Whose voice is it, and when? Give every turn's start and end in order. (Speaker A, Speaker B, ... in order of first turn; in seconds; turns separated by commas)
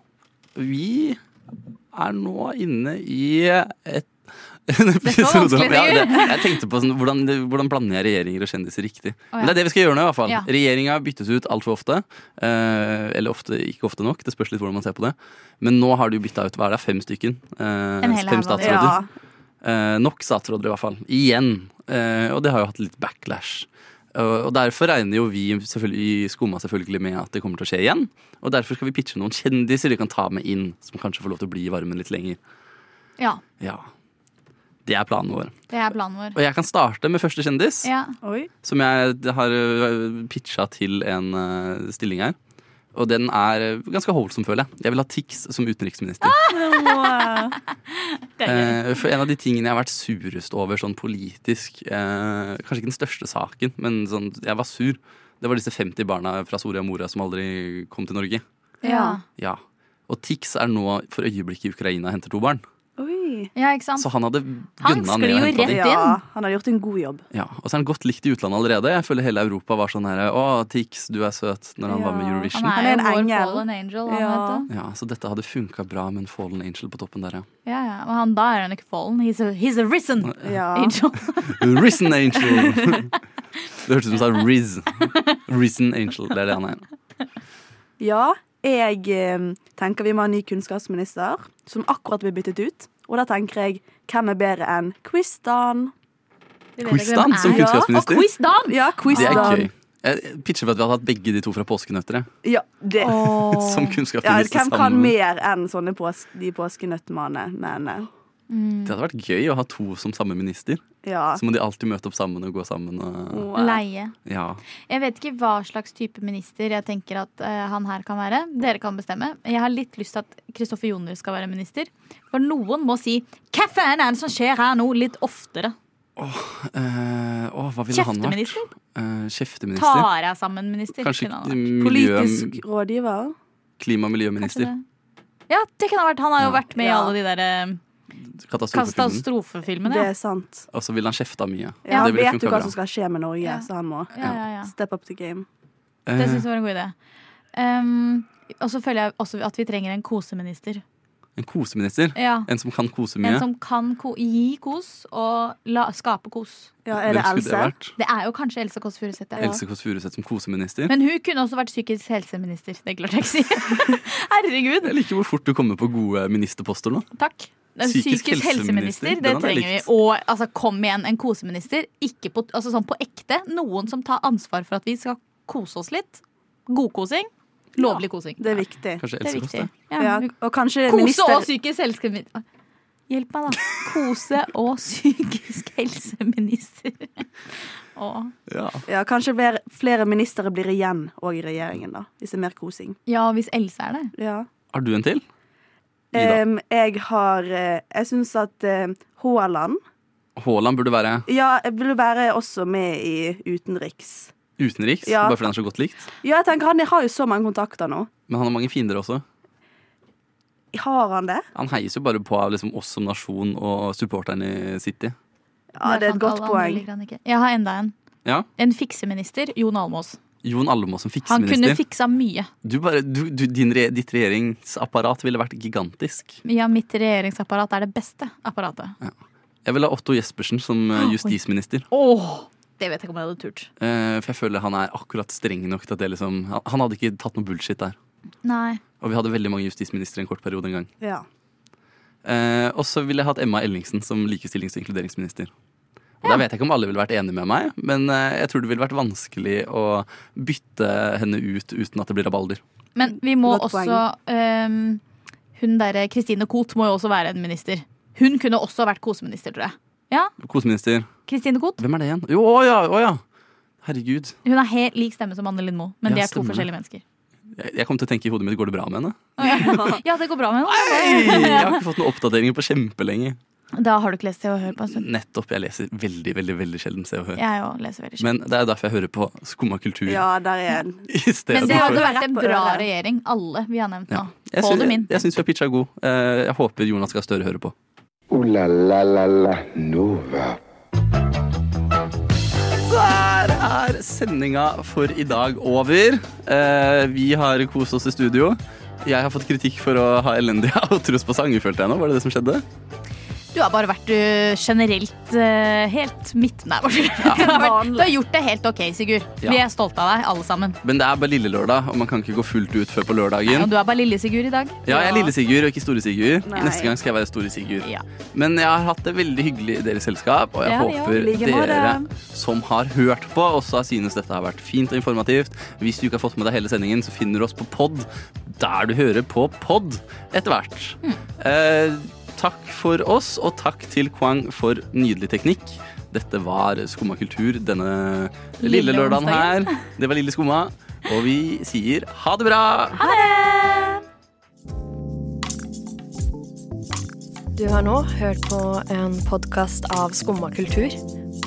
Speaker A: 0.6-1.2, Speaker A: 1.9-4.2, Speaker A: 4.7-19.0, Speaker B: 5.0-6.6, Speaker B: 18.0-19.0, Speaker C: 18.6-19.1, Speaker A: 19.6-32.4, Speaker A: 33.6-33.9, Speaker A: 34.9-35.6, Speaker B: 35.7-36.4, Speaker A: 36.4-37.9, Speaker B: 37.8-38.1, Speaker C: 38.2-38.5, Speaker A: 38.6-42.4, Speaker A: 42.9-46.4, Speaker B: 46.2-48.8, Speaker C: 46.5-47.6, Speaker A: 48.4-58.4, Speaker C: 58.8-59.2, Speaker B: 58.8-59.2, Speaker A: 59.4-62.6, Speaker C: 63.0-63.5, Speaker B: 63.6-64.1, Speaker A: 64.0-65.8, Speaker B: 64.8-66.2, Speaker C: 65.6-67.2, Speaker A: 67.3-72.7, Speaker C: 71.9-74.7, Speaker B: 72.5-74.7, Speaker A: 74.7-77.5, Speaker B: 77.7-81.8, Speaker C: 80.4-81.0, Speaker A: 81.4-83.1, Speaker A: 83.8-86.8, Speaker C: 88.0-95.9, Speaker B: 96.8-99.6, Speaker A: 96.8-98.3, Speaker C: 97.4-97.9, Speaker C: 98.7-99.7, Speaker A: 99.1-102.3, Speaker C: 102.4-103.3, Speaker B: 103.0-104.0, Speaker A: 103.1-105.2, Speaker C: 104.2-108.1, Speaker B: 108.5-109.0, Speaker A: 108.8-113.5, Speaker C: 111.0-111.4, Speaker C: 113.3-113.8, Speaker B: 113.5-114.1, Speaker A: 114.2-114.6, Speaker B: 114.9-125.8, Speaker A: 126.2-130.1, Speaker B: 127.9-128.7, Speaker B: 129.8-131.7, Speaker A: 130.9-132.6, Speaker C: 131.8-133.3, Speaker A: 133.8-134.7, Speaker B: 134.4-134.8, Speaker B: 135.5-137.8, Speaker C: 136.8-137.1, Speaker A: 138.3-139.2, Speaker B: 138.7-140.1, Speaker C: 139.9-140.7, Speaker A: 140.7-142.8, Speaker C: 141.9-145.5, Speaker B: 141.9-142.2, Speaker B: 143.4-144.7, Speaker A: 146.1-146.5, Speaker B: 146.2-146.9, Speaker B: 147.5-150.8, Speaker A: 151.4-153.5, Speaker B: 152.2-152.5, Speaker B: 153.2-156.7, Speaker C: 156.9-157.7, Speaker A: 156.9-157.9, Speaker B: 158.0-159.6, Speaker A: 159.4-160.9, Speaker B: 160.9-164.9, Speaker A: 164.8-167.1, Speaker B: 167.2-178.7, Speaker A: 167.8-169.9, Speaker C: 177.8-179.0, Speaker A: 179.0-179.7, Speaker B: 179.2-180.3, Speaker C: 180.0-181.5, Speaker B: 180.9-182.4, Speaker B: 183.1-187.3, Speaker B: 188.0-188.3, Speaker A: 188.5-188.8, Speaker C: 188.9-193.0, Speaker B: 193.1-194.1, Speaker C: 194.2-194.5, Speaker A: 194.7-195.2, Speaker A: 196.1-196.4, Speaker C: 196.1-199.8, Speaker A: 200.4-201.3, Speaker C: 201.3-204.3, Speaker A: 204.6-206.1, Speaker C: 205.1-205.4, Speaker C: 206.2-208.1, Speaker A: 208.3-209.2, Speaker C: 210.7-211.4, Speaker A: 211.6-215.2, Speaker C: 215.7-216.8, Speaker B: 215.8-217.9, Speaker B: 218.6-220.2, Speaker A: 220.4-221.8, Speaker B: 221.3-222.5, Speaker A: 222.6-226.4, Speaker B: 226.4-229.0, Speaker A: 229.0-231.9, Speaker B: 231.0-231.3, Speaker B: 231.9-233.7, Speaker A: 233.8-238.0, Speaker B: 238.4-238.8, Speaker A: 239.0-240.9, Speaker C: 241.0-241.3, Speaker A: 242.2-245.5, Speaker A: 246.2-252.6, Speaker B: 253.0-255.0, Speaker C: 253.4-254.0, Speaker B: 255.6-260.3, Speaker A: 260.4-261.1, Speaker B: 261.3-261.8, Speaker A: 261.8-263.2, Speaker A: 263.8-264.4, Speaker B: 264.4-267.0, Speaker A: 266.1-266.7, Speaker A: 267.5-269.8, Speaker B: 269.4-271.8, Speaker C: 269.4-270.0, Speaker A: 270.7-273.4, Speaker B: 273.8-275.1, Speaker A: 274.8-277.4, Speaker B: 277.4-278.3, Speaker A: 278.2-280.2, Speaker C: 280.1-282.9, Speaker A: 281.1-282.1, Speaker B: 281.5-285.2, Speaker A: 284.1-287.7, Speaker D: 288.3-290.6, Speaker A: 292.8-302.6, Speaker B: 303.5-310.8, Speaker A: 307.2-307.5, Speaker C: 307.2-308.1, Speaker A: 310.8-313.7, Speaker B: 313.5-315.3, Speaker A: 314.9-343.0, Speaker C: 316.5-317.0, Speaker B: 320.6-321.2, Speaker C: 321.2-322.1, Speaker B: 338.6-339.8, Speaker B: 343.0-344.0, Speaker E: 347.6-351.0